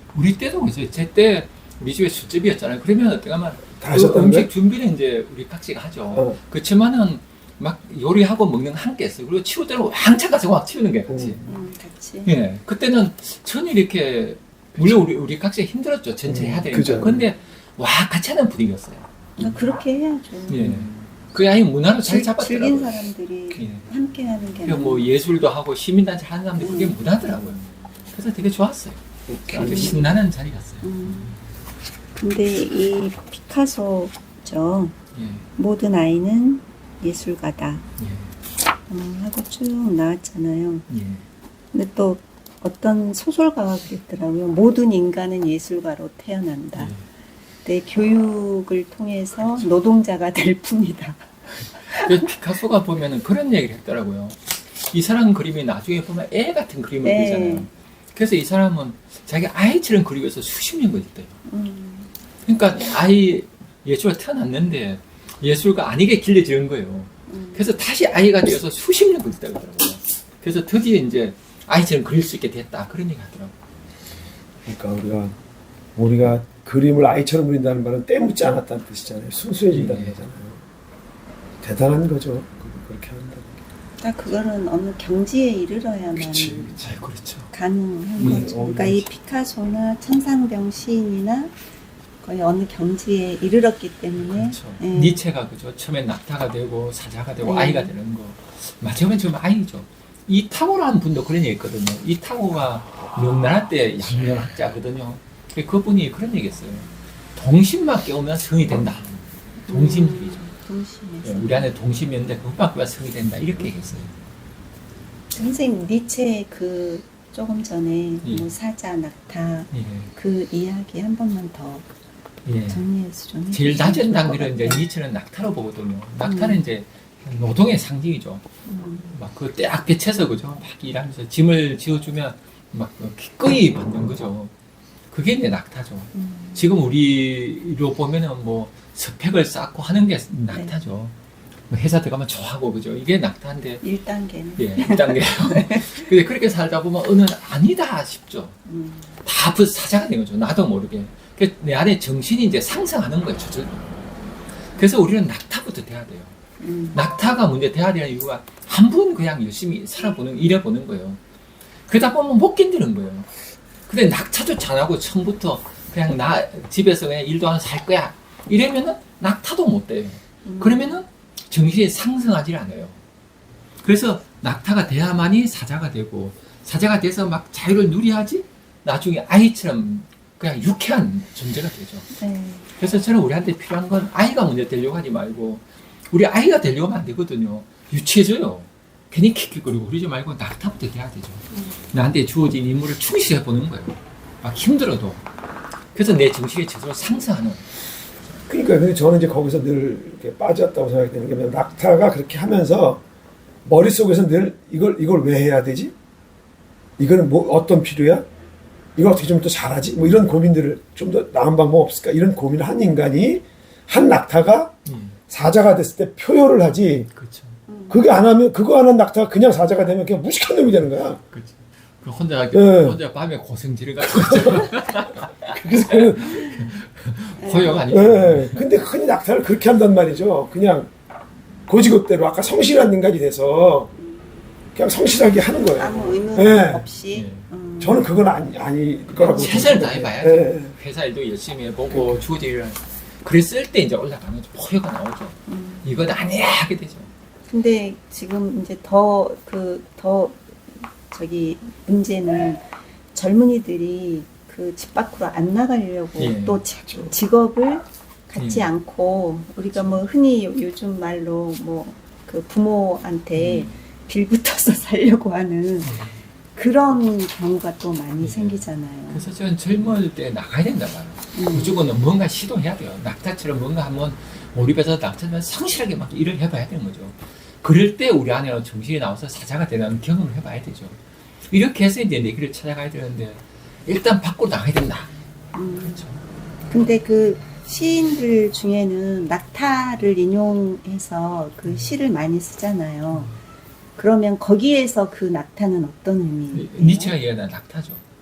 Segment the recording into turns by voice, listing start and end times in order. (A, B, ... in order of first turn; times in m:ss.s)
0:00.1-0:11.4 A
0:03.8-0:04.5 B
0:11.1-0:11.4 B
0:11.5-0:12.3 C
0:12.2-0:19.0 A
0:14.8-0:15.1 B
0:16.3-0:17.3 B
0:19.4-0:20.6 C
0:20.5-0:23.9 A
0:20.6-0:20.9 B
0:22.0-0:25.1 C
0:24.6-0:31.4 A
0:26.6-0:27.0 C
0:29.3-0:29.9 B
0:29.6-0:30.1 C
0:30.8-0:31.3 C
0:32.2-0:34.9 C
0:35.1-0:35.5 A
0:35.6-0:37.8 C
0:38.0-0:38.3 A
0:38.9-0:40.8 C
0:40.9-0:41.2 A
0:41.7-0:46.9 C
0:46.8-0:47.0 A
0:47.6-0:51.2 C
0:51.8-0:52.2 C
0:51.8-1:01.4 A
0:57.0-0:57.7 C
1:01.5-1:02.1 C
1:02.4-1:13.5 A
1:07.3-1:07.6 C
1:14.6-1:15.4 B
1:16.0-1:20.6 B
1:19.7-1:20.2 A
1:21.6-1:23.6 B
1:24.0-1:26.7 C
1:26.1-1:27.0 B
1:26.8-1:27.5 A
1:27.5-1:31.5 C
1:28.2-1:29.1 B
1:28.2-1:28.4 A
1:32.2-1:35.2 C
1:34.2-1:50.4 A
1:37.4-1:37.9 C
1:49.6-1:51.6 C
1:51.2-1:54.1 A
1:55.3-2:01.8 C
1:58.2-1:58.5 A
1:59.7-2:00.1 A
2:02.4-2:02.8 A
2:02.7-2:04.8 C
2:03.5-2:08.4 A
2:06.2-2:06.6 C
2:08.6-2:09.1 C
2:09.1-2:14.5 A
2:15.1-2:21.1 A
2:16.1-2:16.6 C
2:21.7-2:23.8 A
2:23.8-2:26.1 C
2:24.6-2:28.6 A
2:28.7-2:29.1 C
2:29.2-2:34.1 A
2:34.7-2:36.3 A
2:36.6-2:37.0 C
2:36.9-2:41.2 A
2:41.9-2:43.3 A
2:43.9-2:53.0 A
2:50.4-2:51.0 C
2:53.8-3:02.1 A
3:02.2-3:02.7 C
3:02.8-3:15.2 A
3:11.5-3:11.8 C
3:15.9-3:17.7 A
3:18.5-3:23.0 B
3:23.6-3:25.9 B
3:27.0-3:28.3 B
3:29.0-3:34.7 B
3:34.8-3:35.2 A
3:35.3-3:37.1 B
3:37.1-3:37.6 A
3:37.7-3:38.0 C
3:37.9-3:41.2 B
3:41.3-3:48.6 A
3:42.5-3:43.0 B
3:44.0-3:44.7 B
3:45.5-3:46.4 B
3:46.2-3:46.7 C
3:47.4-3:47.8 C
3:47.9-3:50.9 B
3:51.7-3:53.9 B
3:54.7-3:56.8 B
3:55.8-3:58.1 C
3:57.1-3:57.5 A
3:57.8-4:00.7 B
3:59.2-4:07.1 A
4:05.5-4:05.9 C
4:07.5-4:25.9 C
4:16.2-4:16.6 A
4:18.4-4:18.7 A
4:23.3-4:23.7 A
4:25.8-4:26.2 A
4:26.6-4:29.2 C
4:28.2-4:41.0 A
4:31.3-4:31.8 C
4:41.5-4:45.1 A
4:45.5-4:46.0 C
4:45.8-4:46.2 A
4:46.7-4:53.3 C
4:54.0-4:57.1 C
4:56.5-4:58.0 A